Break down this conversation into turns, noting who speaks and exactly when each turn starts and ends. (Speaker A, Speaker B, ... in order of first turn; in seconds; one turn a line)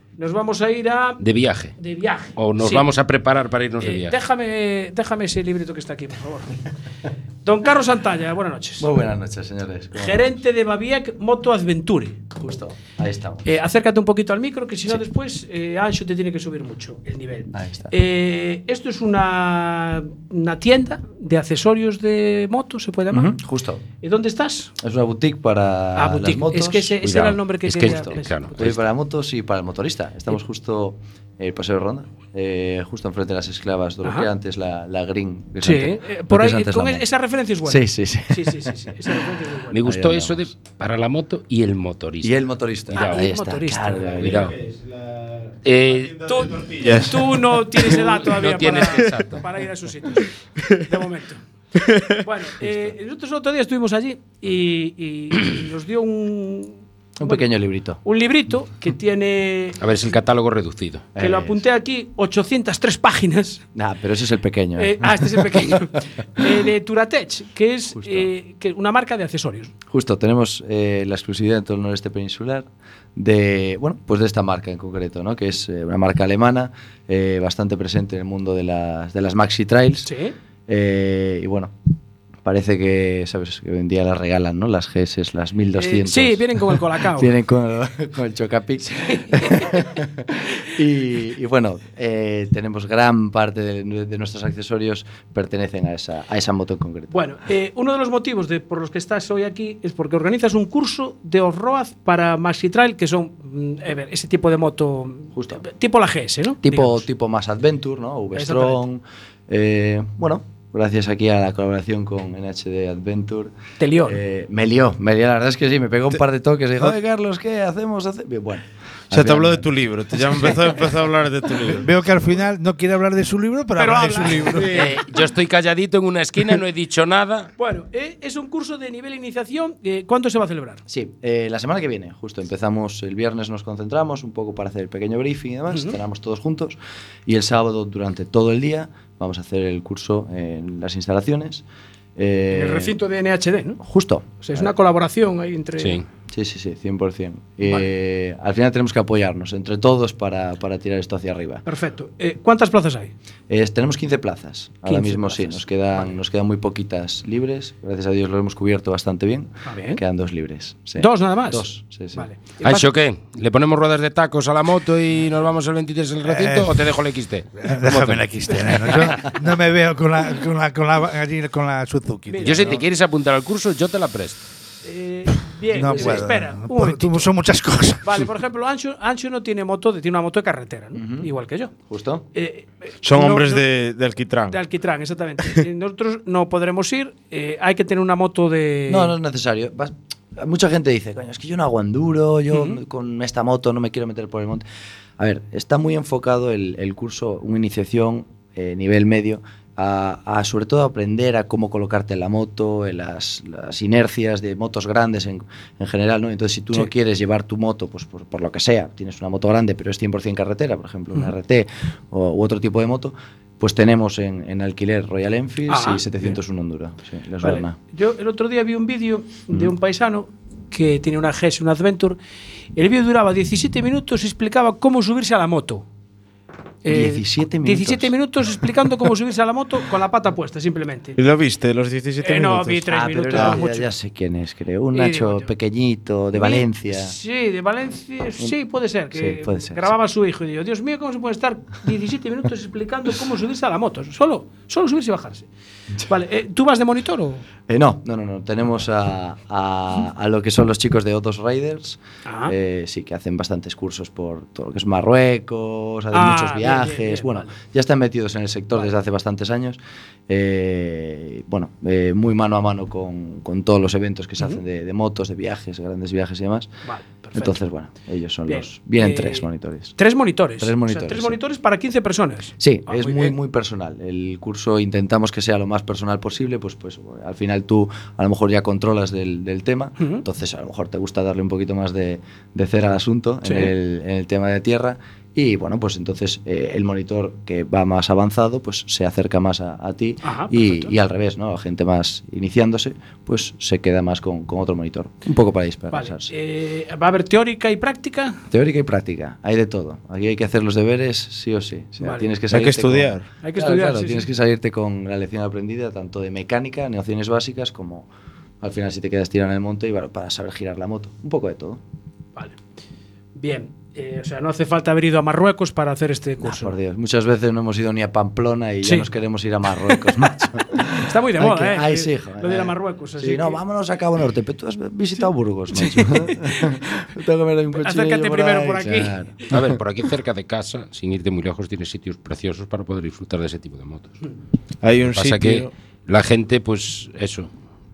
Speaker A: 0.2-1.2
Speaker B: 1.2-1.8
Speaker A: 1.8-2.9
Speaker B: 2.4-4.2
Speaker A: 3.8-6.6
Speaker A: 7.5-8.9
Speaker C: 8.8-10.3
Speaker A: 10.0-12.2
Speaker C: 12.4-13.5
Speaker A: 13.4-23.3
Speaker C: 17.5-17.9
Speaker C: 23.1-23.8
Speaker A: 24.0-24.7
Speaker C: 24.8-27.1
Speaker A: 25.9-28.7
Speaker B: 27.0-28.8
Speaker C: 27.8-37.1
Speaker A: 35.6-39.8
Speaker C: 37.6-38.7
Speaker B: 39.7-43.3
Speaker C: 39.8-40.5
Speaker C: 42.2-44.5
Speaker A: 42.9-44.3
Speaker D: 44.0-47.9
Speaker B: 44.2-44.6
Speaker B: 45.6-46.2
Speaker A: 46.3-51.4
Speaker B: 47.9-49.4
Speaker A: 52.1-57.5
Speaker C: 57.2-58.0
Speaker A: 58.0-59.8
Speaker B: 59.8-61.1
Speaker C: 61.1-61.6
Speaker A: 61.2-63.6
Speaker C: 63.8-65.7
Speaker A: 64.8-69.7
Speaker C: 67.9-68.3
Speaker C: 69.9-80.1
Speaker A: 80.0-80.3
Speaker C: 80.7-81.7
Speaker C: 82.4-97.1
Speaker A: 85.8-87.3
Speaker A: 89.0-89.7
Speaker A: 97.1-107.1
Speaker C: 105.3-105.7
Speaker C: 106.6-113.5
Speaker A: 108.3-108.8
Speaker A: 113.8-114.2
Speaker C: 114.1-120.5
Speaker D: 119.1-121.9
Speaker E: 121.8-124.8
Speaker A: 123.8-124.8
Speaker D: 124.5-124.9
Speaker B: 124.7-127.5
Speaker A: 127.6-130.8
Speaker C: 130.9-141.6
Speaker A: 135.7-136.0
Speaker C: 142.2-142.9
Speaker A: 142.5-143.8
Speaker C: 143.8-144.7
Speaker A: 144.4-146.0
Speaker B: 145.8-146.0
Speaker C: 146.3-151.6
Speaker A: 151.7-153.1
Speaker C: 153.5-162.3
Speaker A: 154.9-156.2
Speaker A: 159.7-160.0
Speaker A: 161.0-162.9
Speaker B: 162.6-168.3
Speaker E: 166.2-166.9
Speaker E: 167.6-172.7
Speaker A: 172.3-172.8
Speaker B: 172.4-174.4
Speaker A: 174.8-177.3
Speaker E: 175.7-178.3
Speaker A: 178.0-181.7
Speaker C: 180.9-181.3
Speaker C: 181.9-182.3
Speaker A: 182.3-183.7
Speaker D: 183.0-184.6
Speaker A: 184.5-189.1
Speaker C: 188.9-194.6
Speaker A: 192.5-192.8
Speaker C: 195.2-217.8
Speaker A: 215.7-216.4
Speaker A: 217.4-222.2
Speaker A: 222.8-225.8
Speaker A: 226.8-231.2
Speaker C: 226.9-228.1
Speaker D: 231.2-233.6
Speaker A: 232.2-233.9
Speaker C: 232.9-237.2
Speaker A: 234.9-235.5
Speaker A: 236.3-245.5
Speaker C: 239.1-239.9
Speaker A: 246.1-247.4
Speaker C: 247.7-266.7
Speaker A: 252.2-252.6
Speaker A: 256.1-257.5
Speaker A: 266.9-267.6
Speaker C: 267.3-270.0
Speaker A: 268.5-273.4
Speaker C: 270.6-271.4
Speaker C: 272.6-296.3
Speaker A: 280.0-280.2
Speaker A: 283.4-283.7
Speaker A: 290.2-290.9
Speaker A: 295.9-298.4
Speaker C: 298.5-308.1
Speaker A: 302.0-302.3
Speaker D: 302.5-303.3
Speaker A: 303.4-304.3
Speaker C: 308.6-311.8
Speaker A: 313.4-316.7
Speaker C: 316.4-329.5
Speaker A: 319.8-320.1
Speaker A: 320.9-323.6
Speaker A: 325.8-326.9
Speaker A: 327.8-329.2
Speaker B: 329.5-334.2
Speaker D: 334.8-335.7
Speaker B: 335.1-337.5